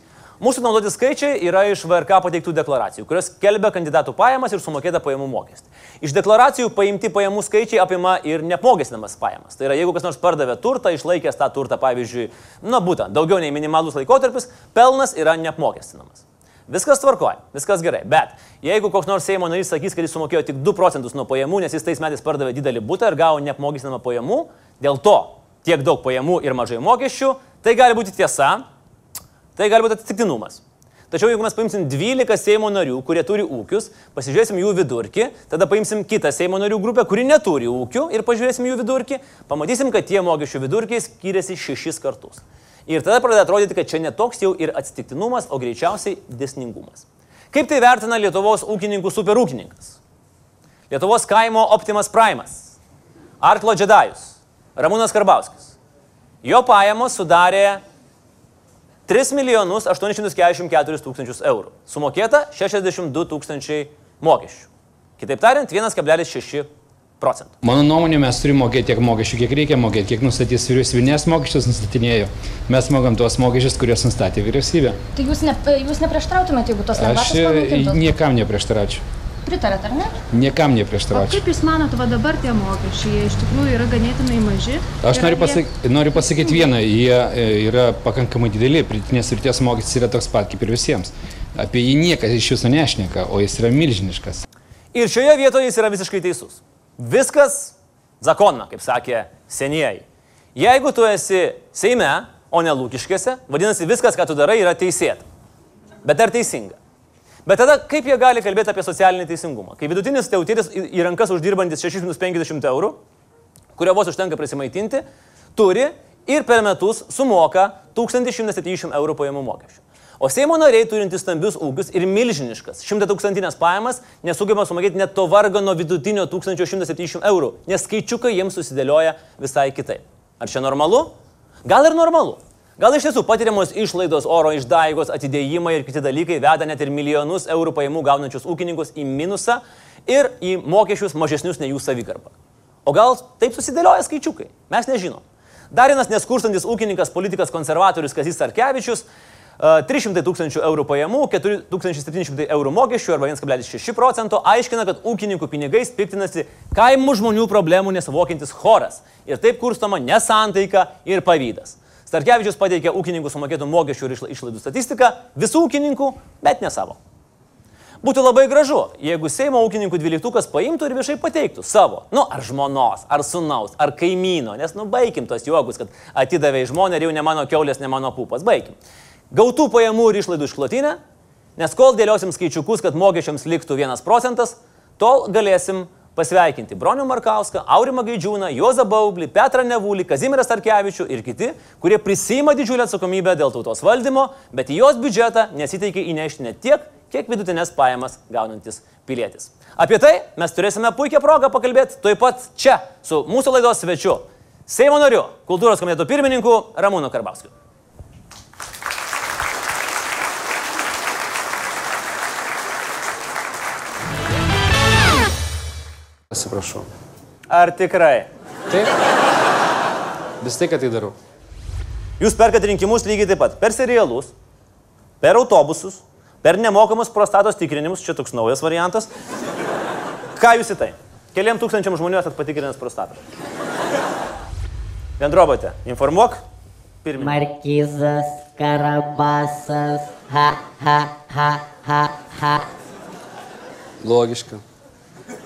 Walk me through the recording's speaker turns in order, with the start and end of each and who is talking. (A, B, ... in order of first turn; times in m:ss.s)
0:00.4-0:28.6 A
0:29.6-0:50.0 A
0:50.9-0:52.8 A
0:53.4-0:55.8 A
0:56.4-0:57.8 A
0:59.1-1:06.7 A
1:07.2-1:07.5 A
1:07.6-1:15.0 B
1:15.2-1:18.0 C
1:16.9-1:19.0 B
1:19.5-1:20.2 C
1:20.3-1:21.4 B
1:21.1-1:26.7 D
1:25.0-1:34.4 B
1:34.9-1:40.0 A
1:40.6-1:45.2 A
1:46.0-1:46.8 A
1:47.5-1:53.0 A
1:53.8-1:55.0 A
1:55.6-2:11.1 A
2:11.6-2:22.3 A
2:22.8-2:29.1 A
2:29.6-2:47.0 A
2:48.0-2:58.8 A
2:59.3-3:01.0 A
3:01.6-3:27.5 A
3:36.3-3:36.9 E
3:37.5-3:38.3 A
3:40.4-3:41.2 E
3:42.2-3:44.3 A
3:45.2-3:49.1 A
3:50.4-3:53.2 A
3:55.2-3:56.4 A
3:57.0-3:57.4 A
3:57.2-4:02.7 F
4:04.0-4:04.6 E